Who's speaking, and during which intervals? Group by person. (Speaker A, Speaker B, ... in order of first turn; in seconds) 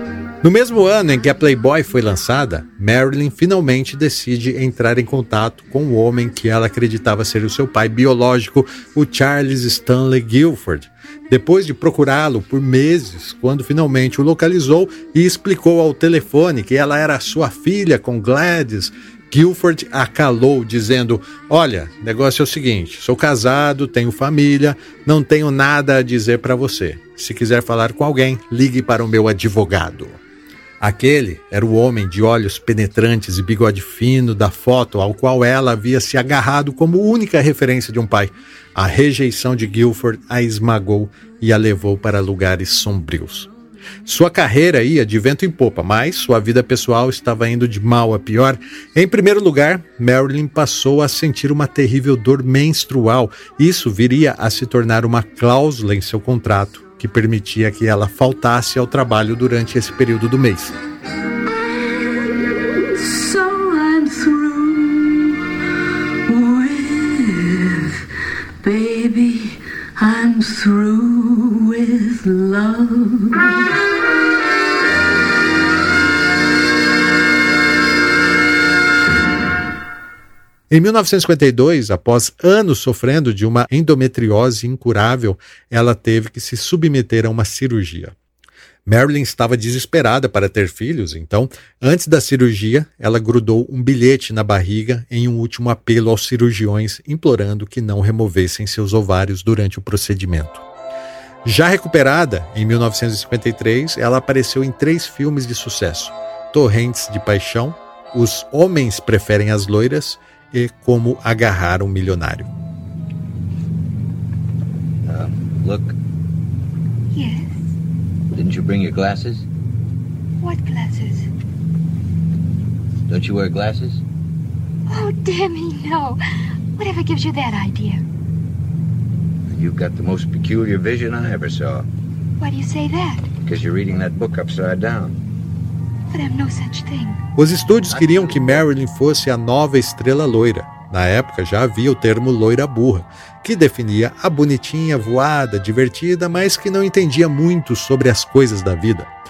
Speaker A: 0.4-30.2, 30.8-43.5, 44.0-60.8, 80.7-88.1, 88.8-100.6, 101.4-112.5, 137.3-149.1
Speaker B: 61.5-65.5, 66.3-68.0, 68.6-73.6
Speaker C: 115.0-116.0, 118.3-119.5, 123.1-124.0, 129.5-131.9, 133.4-135.2, 137.9-138.6
Speaker D: 117.1-117.6, 120.4-121.3, 124.9-126.2, 126.8-128.0, 132.4-133.3, 136.1-137.2